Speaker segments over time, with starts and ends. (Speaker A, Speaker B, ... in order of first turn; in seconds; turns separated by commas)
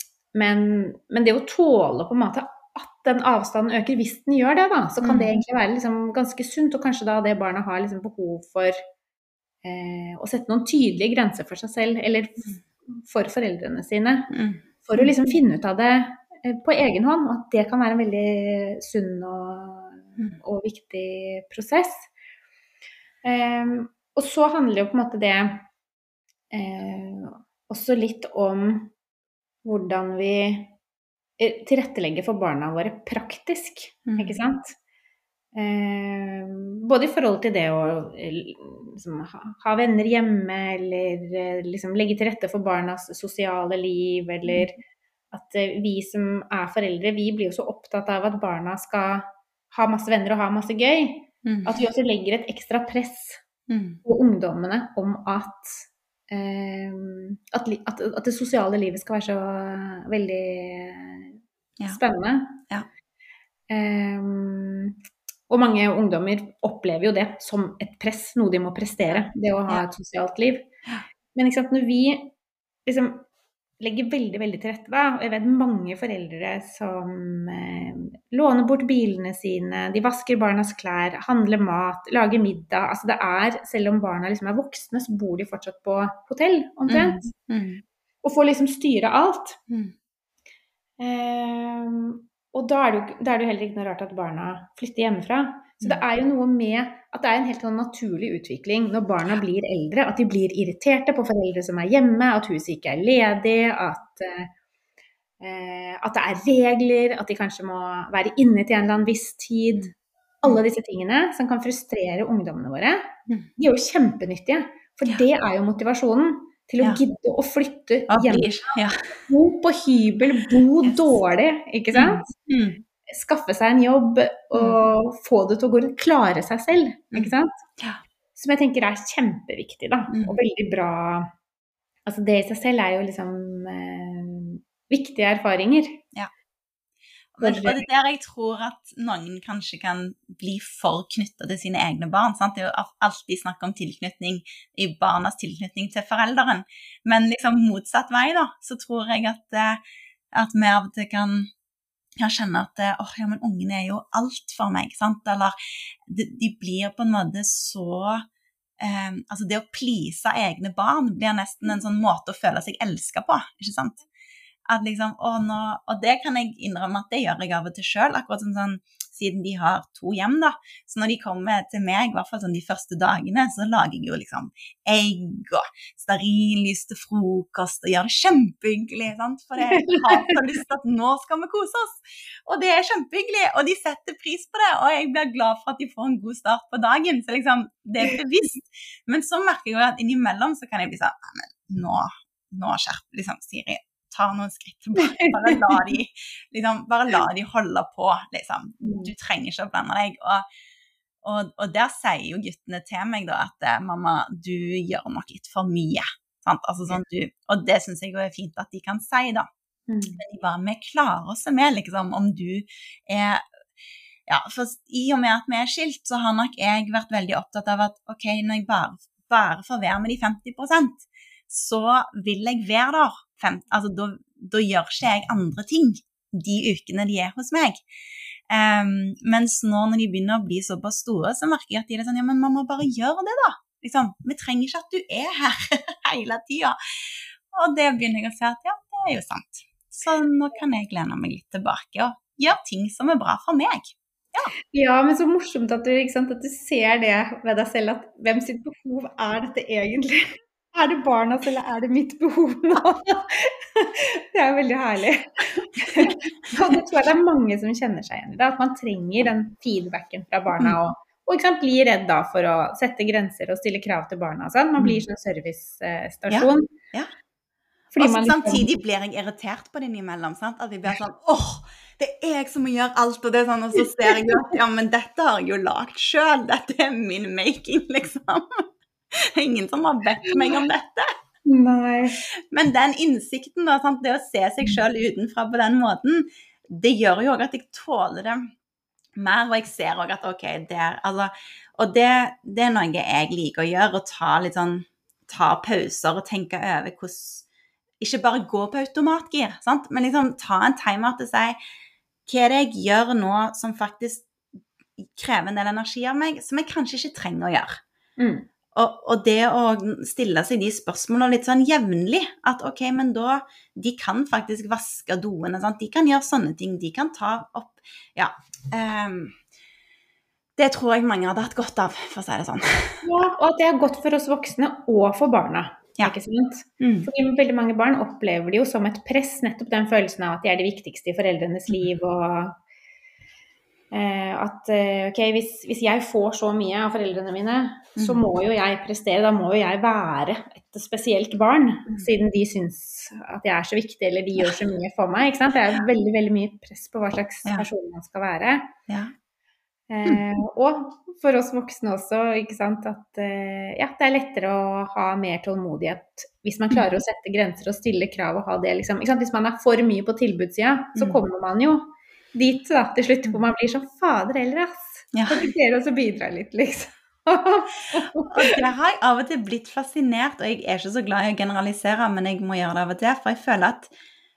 Speaker A: 0.3-8.8, Speaker B: 5.0-5.3, Speaker A: 9.6-14.3, Speaker B: 14.3-15.3, Speaker A: 14.8-22.1, Speaker A: 23.2-25.6, Speaker A: 26.5-28.9, Speaker A: 29.6-30.7, Speaker A: 31.4-34.8, Speaker B: 34.0-34.4, Speaker A: 35.5-44.8, Speaker A: 45.3-53.4, Speaker B: 51.4-51.8, Speaker B: 53.7-54.0, Speaker A: 54.0-61.4, Speaker A: 61.9-62.6, Speaker A: 63.7-65.0, Speaker A: 65.5-70.7, Speaker A: 71.3-72.3, Speaker A: 72.9-73.2, Speaker A: 73.8-87.3, Speaker B: 86.9-87.8, Speaker A: 88.2-89.6, Speaker A: 91.0-104.5, Speaker A: 105.4-118.5, Speaker B: 118.1-119.2, Speaker A: 119.2-122.3, Speaker B: 121.9-122.8, Speaker A: 123.1-127.5, Speaker B: 124.5-124.8, Speaker B: 127.1-128.0, Speaker A: 128.4-131.3, Speaker B: 130.1-130.4, Speaker A: 132.1-136.0, Speaker B: 137.4-149.8, Speaker A: 137.4-137.8, Speaker B: 150.3-151.5, Speaker B: 152.2-155.5, Speaker B: 156.1-158.2, Speaker B: 158.8-164.0, Speaker B: 164.7-200.4, Speaker A: 179.8-180.4, Speaker A: 195.2-195.8, Speaker A: 198.8-199.1, Speaker B: 201.2-209.5, Speaker A: 209.9-210.2, Speaker B: 210.2-213.4, Speaker B: 214.3-227.8, Speaker B: 228.5-244.5, Speaker A: 244.7-266.7, Speaker B: 266.3-267.1, Speaker A: 267.9-268.7, Speaker B: 268.0-278.6, Speaker A: 274.1-274.4, Speaker B: 279.1-281.1, Speaker A: 281.4-282.2, Speaker B: 282.5-288.5, Speaker B: 289.2-297.4, Speaker B: 298.0-301.6, Speaker B: 302.2-304.3, Speaker B: 305.1-307.8, Speaker A: 308.2-308.5, Speaker B: 308.7-319.3, Speaker B: 320.6-323.1, Speaker A: 323.0-332.6, Speaker B: 326.8-327.1, Speaker A: 333.9-348.7, Speaker B: 337.9-338.2, Speaker B: 348.9-349.1, Speaker A: 349.9-368.6, Speaker B: 365.1-365.5, Speaker B: 368.2-373.9